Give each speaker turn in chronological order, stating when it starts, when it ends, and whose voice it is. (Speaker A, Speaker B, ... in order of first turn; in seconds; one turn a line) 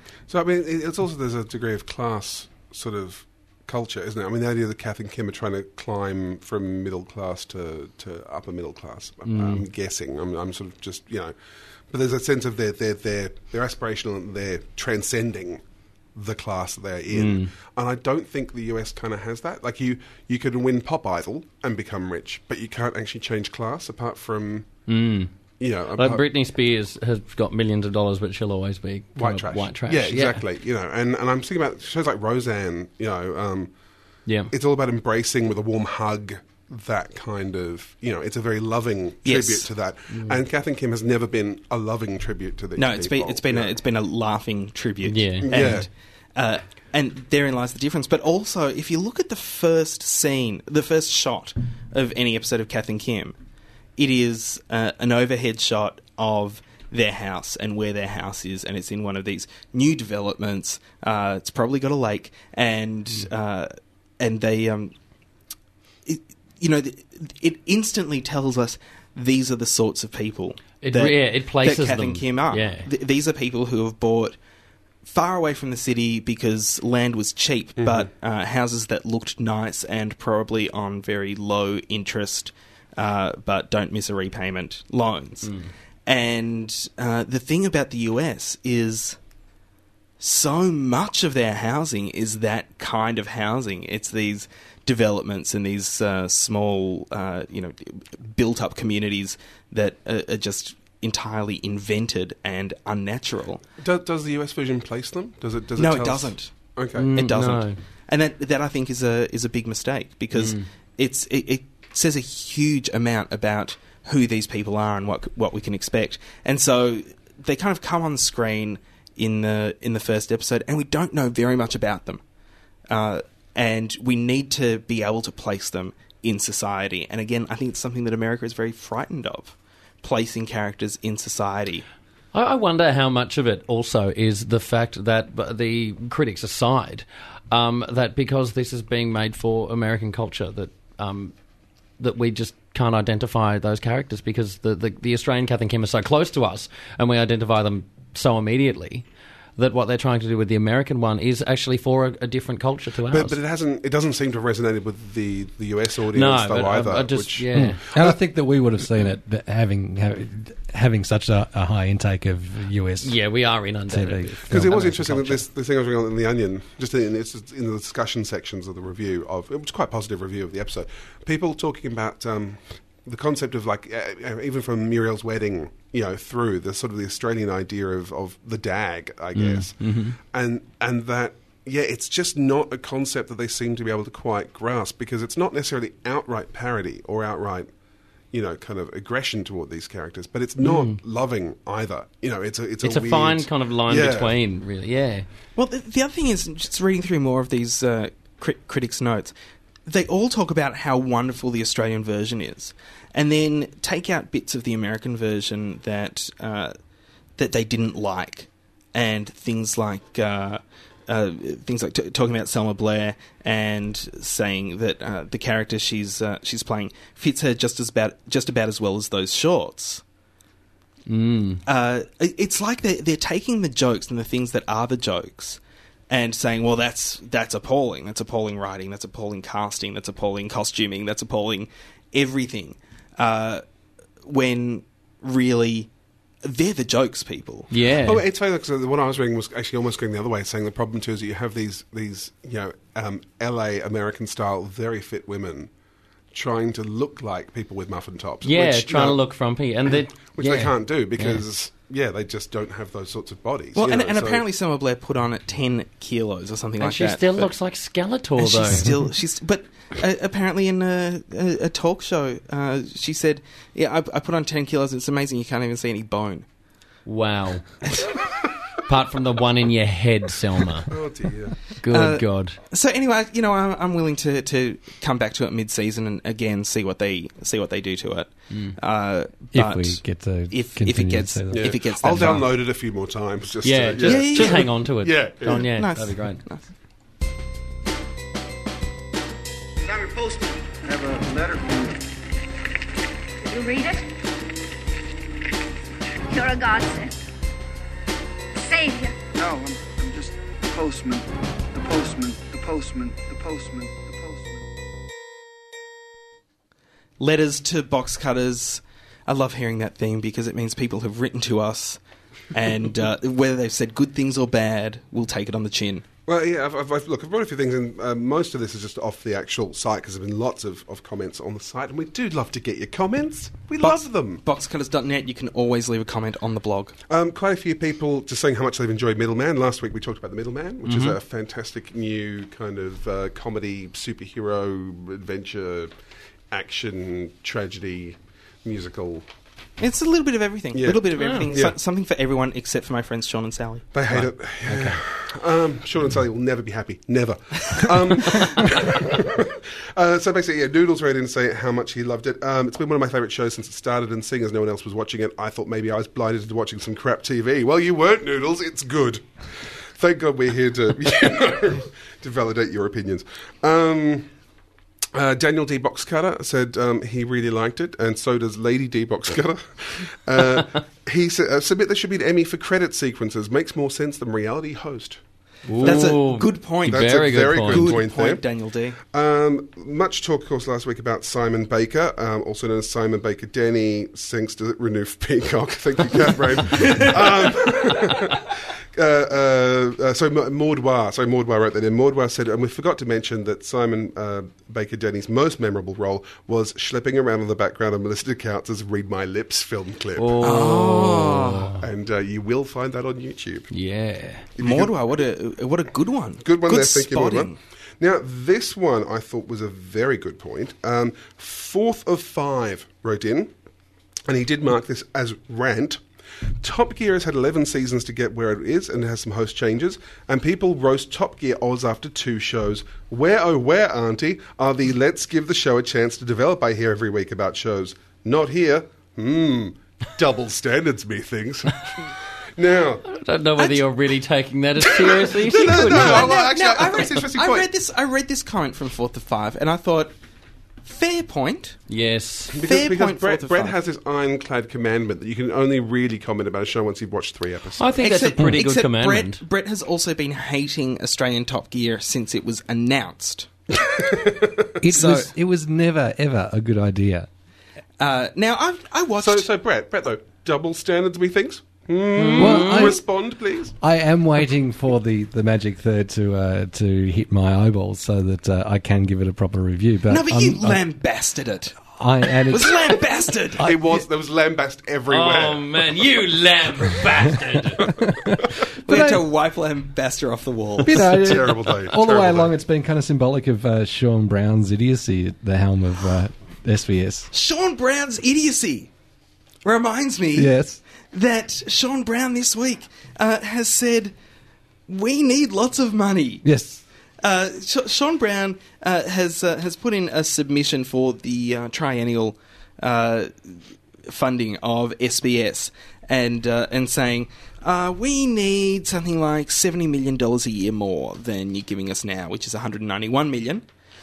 Speaker A: 0.3-11.3
Speaker B: 9.3-9.7
Speaker A: 11.9-15.6
Speaker A: 16.1-24.7
Speaker B: 17.1-17.5
Speaker B: 24.9-25.3
Speaker A: 25.6-26.2
Speaker B: 25.9-30.4
Speaker A: 29.2-33.7
Speaker B: 34.3-34.5
Speaker A: 34.5-43.8
Speaker C: 39.2-39.7
Speaker B: 40.1-40.4
Speaker C: 42.8-53.4
Speaker B: 45.1-45.9
Speaker A: 45.4-45.9
Speaker C: 54.0-64.9
Speaker C: 66.1-74.4
Speaker B: 70.8-72.9
Speaker C: 75.0-85.5
Speaker A: 77.8-78.1
Speaker C: 86.1-89.2
Speaker C: 90.2-103.6
Speaker A: 103.8-107.1
Speaker C: 105.8-106.5
Speaker B: 107.0-107.8
Speaker C: 107.1-122.2
Speaker B: 110.3-110.7
Speaker C: 122.9-131.8
Speaker B: 132.3-141.3
Speaker B: 142.0-149.1
Speaker B: 149.6-153.4
Speaker A: 153.1-158.2
Speaker B: 156.1-157.8
Speaker D: 157.5-163.2
Speaker B: 163.0-165.4
Speaker D: 163.9-164.9
Speaker A: 164.5-187.7
Speaker B: 179.3-180.2
Speaker A: 188.3-194.3
Speaker B: 190.6-191.0
Speaker B: 192.8-195.2
Speaker C: 195.6-199.3
Speaker C: 199.9-206.7
Speaker C: 207.4-220.0
Speaker B: 221.1-221.6
Speaker C: 221.7-233.6
Speaker C: 234.2-235.9
Speaker C: 236.4-237.7
Speaker B: 237.7-238.2
Speaker A: 238.0-245.7
Speaker A: 246.3-249.2
Speaker B: 248.4-251.4
Speaker A: 249.9-254.4
Speaker C: 253.8-257.5
Speaker B: 256.8-259.0
Speaker C: 258.4-266.4
Speaker B: 267.1-267.7
Speaker C: 267.8-268.1
Speaker B: 268.9-270.9
Speaker A: 270.9-271.6
Speaker B: 271.8-272.6
Speaker C: 271.9-282.5
Speaker D: 279.5-282.4
Speaker A: 281.5-285.7
Speaker B: 283.6-286.4
Speaker C: 284.0-284.7
Speaker C: 285.4-286.7
Speaker E: 289.8-292.1
Speaker F: 293.4-294.1
Speaker F: 296.3-297.2
Speaker F: 298.6-299.2
Speaker E: 299.4-304.6
Speaker C: 307.2-312.0
Speaker C: 312.5-316.1
Speaker A: 316.3-324.4
Speaker C: 323.8-326.9
Speaker A: 327.1-335.9
Speaker B: 330.9-331.2
Speaker A: 336.5-339.2
Speaker C: 339.8-343.9
Speaker A: 340.8-341.8
Speaker A: 343.9-359.3
Speaker D: 344.7-344.9
Speaker A: 359.9-364.3
Speaker A: 365.1-375.2
Speaker B: 375.7-378.0
Speaker A: 375.8-376.2
Speaker C: 375.8-379.0
Speaker A: 376.9-378.4
Speaker A: 379.0-400.7
Speaker B: 400.2-401.8
Speaker C: 400.4-401.7
Speaker A: 401.8-403.7
Speaker B: 403.7-404.5
Speaker A: 404.6-404.9
Speaker C: 404.6-407.6
Speaker A: 406.4-413.5
Speaker A: 414.3-416.0
Speaker A: 416.6-431.9
Speaker A: 432.6-433.1
Speaker B: 433.1-436.4
Speaker A: 434.9-437.7
Speaker C: 435.7-440.1
Speaker C: 440.9-441.8
Speaker B: 441.9-442.6
Speaker A: 442.5-447.9
Speaker C: 442.6-443.8
Speaker B: 447.8-449.4
Speaker C: 448.0-453.5
Speaker A: 453.7-454.7
Speaker D: 454.8-457.3
Speaker C: 454.9-455.3
Speaker C: 458.0-459.5
Speaker A: 459.2-463.8
Speaker B: 462.1-463.0
Speaker D: 462.4-463.0
Speaker D: 463.8-470.8
Speaker C: 470.1-471.8
Speaker D: 471.9-473.0
Speaker C: 472.5-473.6
Speaker D: 473.6-474.1
Speaker A: 473.6-475.7
Speaker B: 475.1-478.0
Speaker D: 478.1-478.4
Speaker C: 478.9-481.1
Speaker D: 478.9-479.2
Speaker D: 480.8-487.3
Speaker A: 481.1-482.6
Speaker C: 487.3-488.9
Speaker C: 489.6-490.6
Speaker D: 490.4-490.8
Speaker C: 491.1-494.1
Speaker C: 494.9-496.4
Speaker D: 496.4-496.8
Speaker C: 497.2-513.6